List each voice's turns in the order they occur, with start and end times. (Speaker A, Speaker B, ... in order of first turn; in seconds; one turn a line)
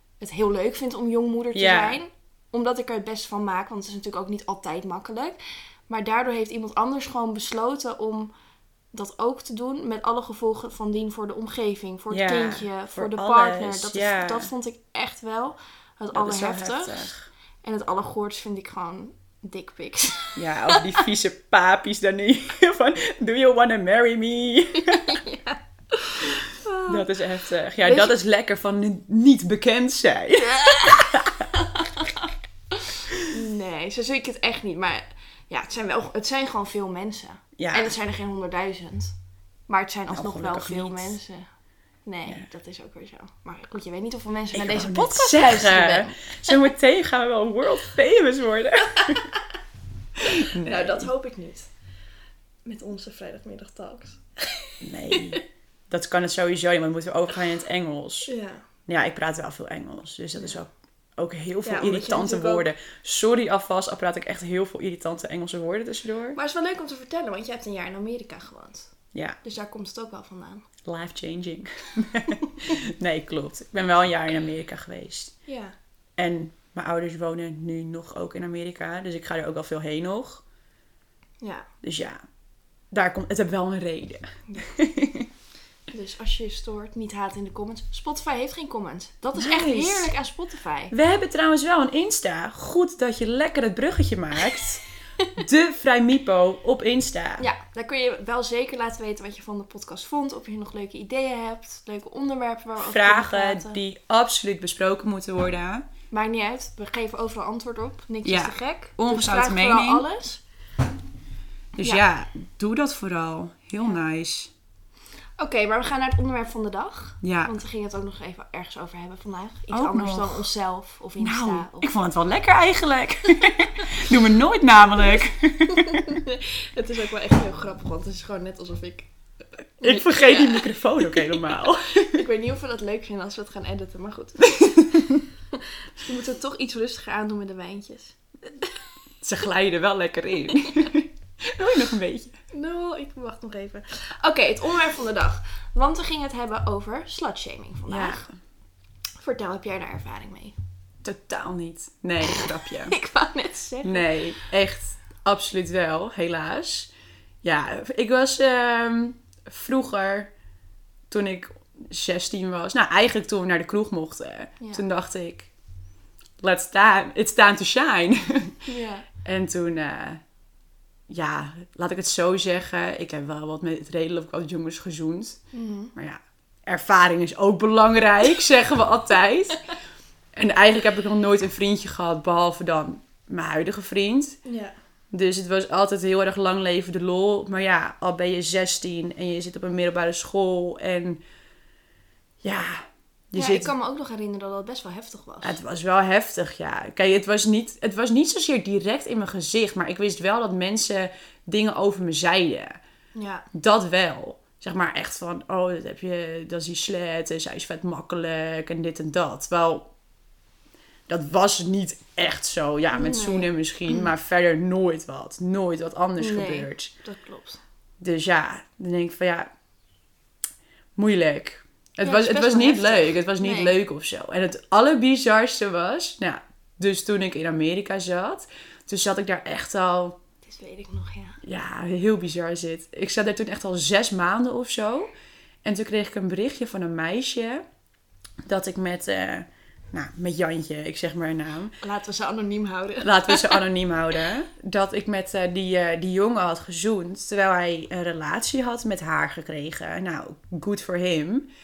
Speaker A: 0.2-5.4
Speaker B: 1.5-2.0
Speaker A: 5.9-8.3
Speaker A: 8.9-17.1
Speaker B: 12.1-14.5
Speaker B: 16.1-17.3
Speaker A: 17.6-21.0
Speaker B: 20.4-25.2
Speaker A: 25.1-27.1
Speaker B: 26.9-31.5
Speaker A: 27.8-28.1
Speaker A: 30.4-39.1
Speaker B: 37.6-37.9
Speaker A: 39.7-41.5
Speaker B: 40.1-41.2
Speaker A: 42.0-46.6
Speaker B: 44.5-49.3
Speaker B: 50.2-51.1
Speaker A: 50.3-51.7
Speaker A: 52.6-55.4
Speaker B: 54.8-58.3
Speaker A: 58.2-58.6
Speaker B: 58.9-66.4
Speaker A: 61.6-62.7
Speaker A: 66.3-68.9
Speaker A: 69.4-70.7
Speaker B: 70.8-75.3
Speaker A: 75.5-75.8
Speaker B: 76.2-80.4
Speaker A: 81.4-81.7
Speaker B: 81.8-82.2
Speaker B: 82.9-85.3
Speaker A: 85.9-90.9
Speaker B: 89.3-90.1
Speaker B: 90.9-94.8
Speaker B: 95.4-97.5
Speaker A: 97.4-103.8
Speaker B: 102.8-105.9
Speaker A: 106.1-110.4
Speaker B: 108.2-110.0
Speaker B: 111.8-114.5
Speaker A: 115.4-121.9
Speaker B: 117.2-117.5
Speaker B: 119.7-120.5
Speaker B: 121.2-126.2
Speaker A: 125.7-129.1
Speaker A: 129.8-131.3
Speaker B: 129.8-132.2
Speaker A: 132.1-138.7
Speaker B: 134.9-135.2
Speaker B: 139.2-142.3
Speaker A: 140.6-140.9
Speaker A: 142.5-148.2
Speaker B: 147.9-148.3
Speaker A: 149.2-150.6
Speaker B: 151.0-152.9
Speaker A: 152.2-154.1
Speaker B: 153.8-156.9
Speaker B: 157.4-160.3
Speaker B: 161.1-165.5
Speaker B: 166.4-168.6
Speaker A: 168.7-169.1
Speaker B: 169.2-170.2
Speaker B: 171.1-175.4
Speaker A: 175.5-175.9
Speaker B: 176.0-179.7
Speaker B: 180.4-184.4
Speaker A: 184.4-184.7
Speaker B: 185.1-191.2
Speaker B: 192.4-193.7
Speaker A: 193.4-195.6
Speaker B: 195.4-202.8
Speaker A: 203.2-203.5
Speaker B: 203.5-209.9
Speaker B: 211.1-216.9
Speaker A: 212.9-214.1
Speaker A: 216.2-217.6
Speaker B: 218.0-219.5
Speaker B: 221.0-230.2
Speaker A: 222.0-223.8
Speaker A: 230.4-231.4
Speaker B: 231.4-235.1
Speaker B: 235.6-237.6
Speaker B: 238.4-241.8
Speaker A: 241.8-243.6
Speaker B: 243.0-251.5